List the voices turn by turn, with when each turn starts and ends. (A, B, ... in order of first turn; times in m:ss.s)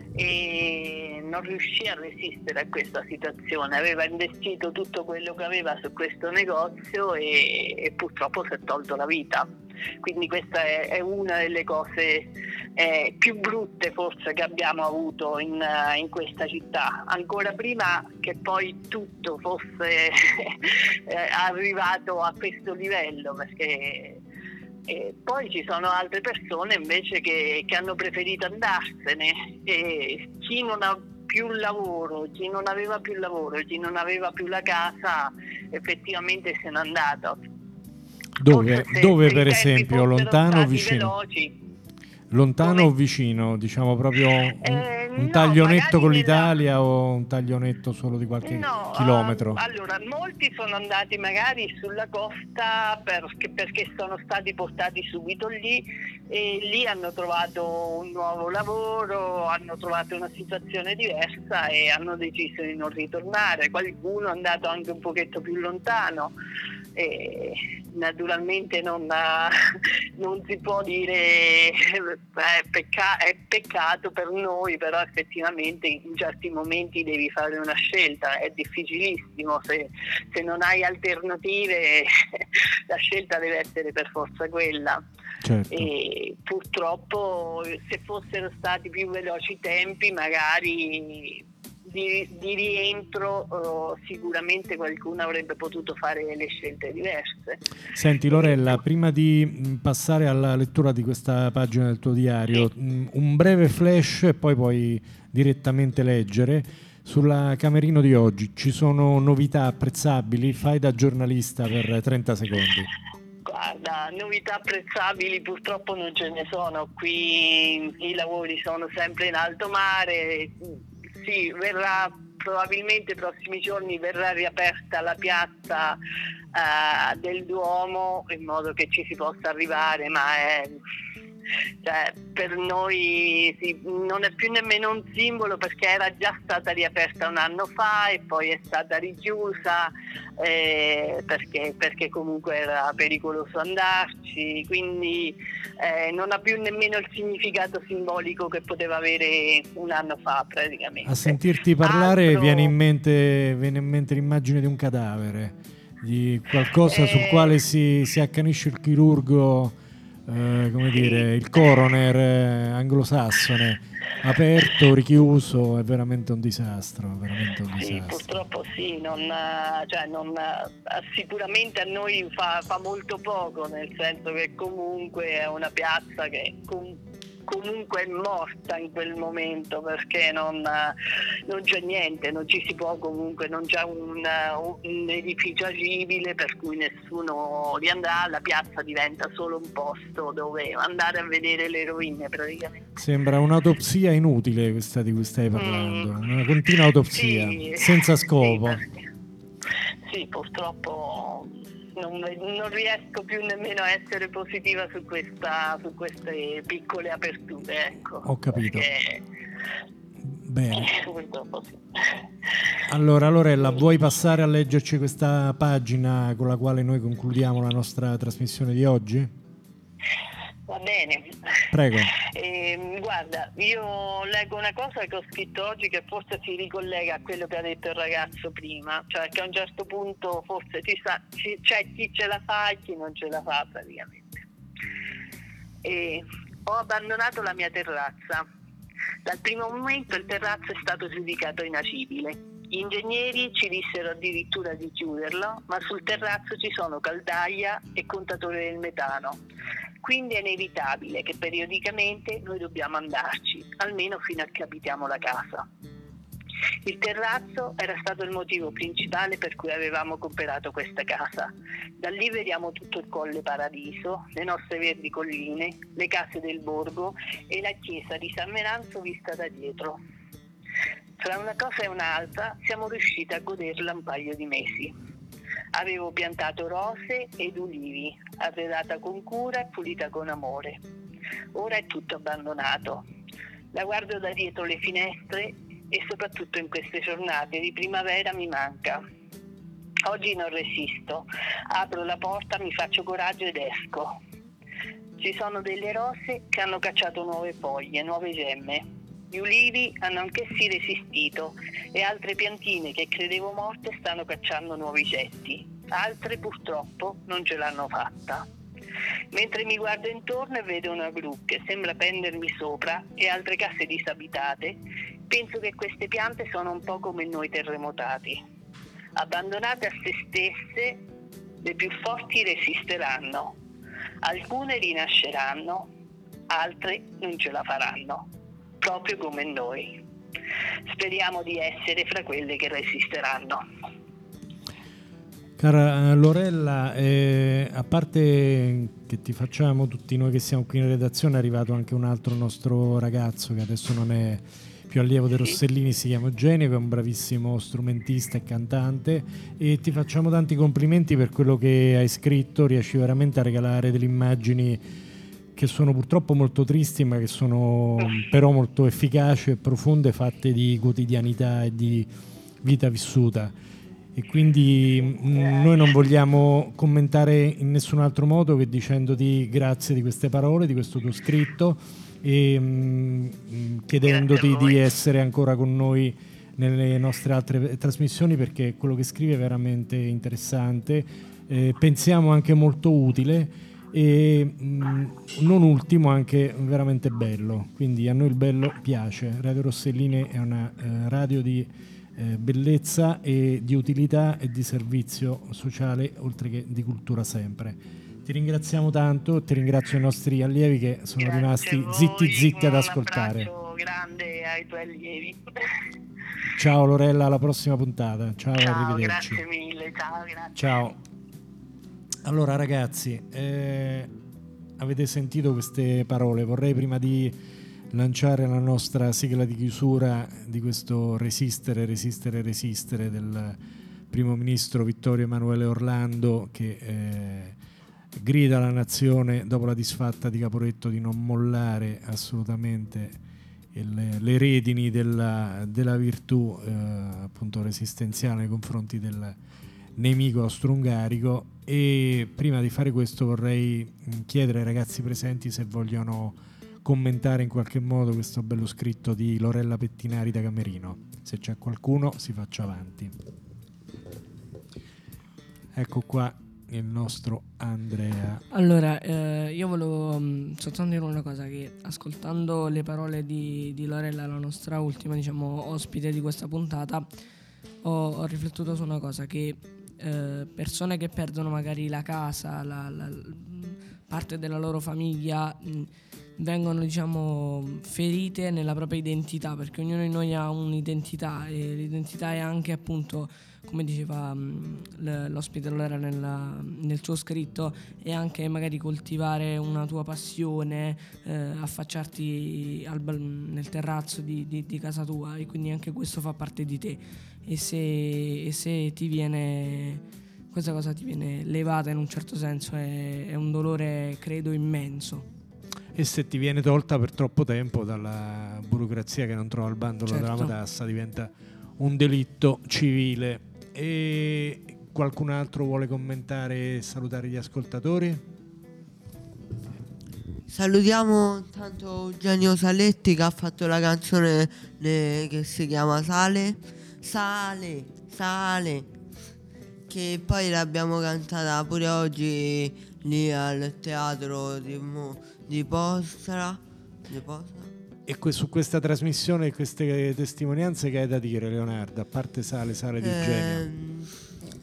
0:00.2-0:09.5 A
0:10.0-0:20.6 A
0:21.1-0:24.2 A
0:24.9-0:37.4 A
0:38.4-0:41.1 B
0:38.4-0:41.5 A
0:42.3-0:49.6 B
0:42.6-0:42.9 A
0:44.6-0:46.5 A
0:48.4-1:06.3 A
1:07.0-1:09.6 A
1:10.2-1:25.0 A
1:25.4-1:25.9 B
1:25.7-1:37.6 A
1:37.9-1:52.9 B
1:53.4-2:00.6 A
2:01.2-2:06.0 A
2:06.5-2:10.8 A
2:11.8-2:32.7 A
2:31.0-2:39.8 B
2:36.9-2:37.5 A
2:40.3-2:48.3 B
2:40.9-2:41.3 A
2:47.8-3:00.9 A
3:01.5-3:12.8 A
3:13.0-3:18.8 B
3:15.5-3:16.1 A
3:17.0-3:18.9 A
3:20.1-3:29.2 A
3:28.2-3:28.9 B
3:30.3-3:30.9 B
3:30.8-3:31.8 A
3:32.9-3:39.3 B
3:40.7-3:41.3 A
3:41.7-3:42.1 B
3:42.2-3:54.4 A
3:55.8-3:58.4 A
3:59.2-4:09.4 A
4:10.0-4:15.6 A
4:16.8-4:30.0 A
4:31.2-4:34.9 A
4:35.7-4:40.8 A
4:41.5-4:43.0 A
4:43.7-4:49.0 A
4:50.0-4:54.2 A
4:55.2-5:08.4 A
5:09.3-5:18.4 A
5:19.2-5:21.0 A
5:21.6-5:23.6 A
5:24.2-5:25.9 A
5:26.5-5:28.3 A
5:28.8-5:30.0 A
5:30.9-5:33.6 A
5:35.6-5:54.8 B
5:55.5-6:02.1 B
6:02.6-6:03.5 B
6:04.1-6:43.5 B
6:14.0-6:14.8 A
6:41.2-6:45.4 A
6:46.5-6:49.4 B
6:48.6-6:50.7 A
6:50.6-6:51.0 B
6:52.2-6:54.1 B
6:54.8-6:57.3 B
6:57.9-7:03.6 B
7:04.1-7:07.6 B
7:08.2-7:13.2 B
7:13.7-7:19.4 B
7:20.0-7:33.1 B
7:35.7-7:38.4 B
7:38.5-7:47.1 C
7:47.8-8:25.2 C
8:25.9-8:38.2 B
8:30.1-8:30.5 C
8:40.5-8:48.9 D
8:49.9-8:57.7 D
8:58.1-9:03.7 B
9:03.0-9:04.1 D